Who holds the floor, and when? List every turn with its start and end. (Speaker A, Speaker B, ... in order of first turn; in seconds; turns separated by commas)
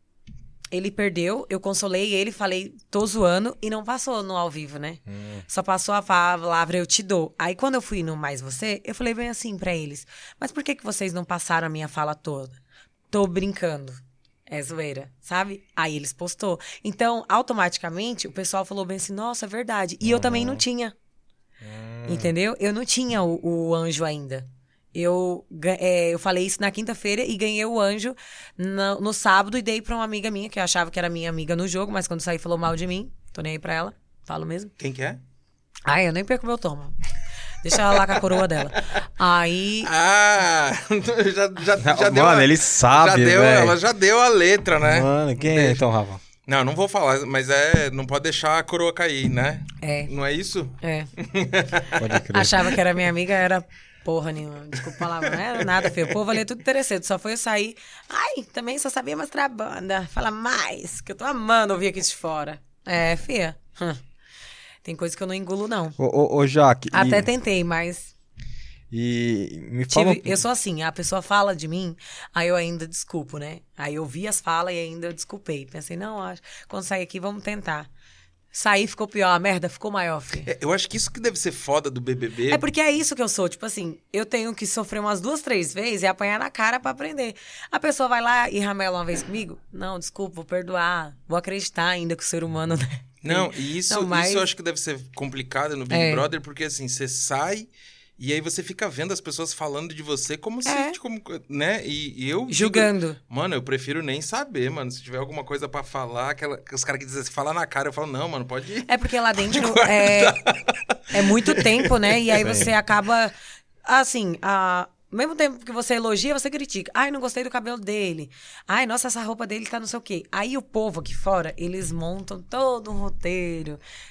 Speaker A: 0.7-12.6, Speaker B: 5.1-5.4, Speaker A: 13.1-20.9, Speaker B: 20.0-20.6, Speaker B: 21.6-22.3, Speaker A: 22.1-34.7, Speaker C: 34.8-35.2, Speaker A: 35.9-37.0, Speaker A: 37.6-39.9, Speaker C: 39.8-45.8, Speaker B: 41.8-43.8, Speaker B: 44.8-46.2, Speaker C: 46.5-52.0, Speaker A: 49.8-50.1, Speaker A: 50.8-51.1, Speaker B: 52.0-52.7, Speaker A: 52.3-64.0, Speaker A: 64.8-66.0, Speaker B: 66.0-67.3, Speaker A: 66.9-68.1, Speaker B: 68.9-70.4, Speaker A: 69.9-77.9, Speaker A: 78.5-80.5, Speaker C: 80.5-82.6, Speaker A: 82.5-94.5, Speaker C: 93.2-112.6, Speaker A: 95.9-96.2, Speaker A: 100.6-101.0, Speaker A: 102.5-103.2, Speaker A: 108.9-110.4, Speaker A: 111.1-113.3, Speaker B: 112.4-112.7, Speaker A: 113.8-123.8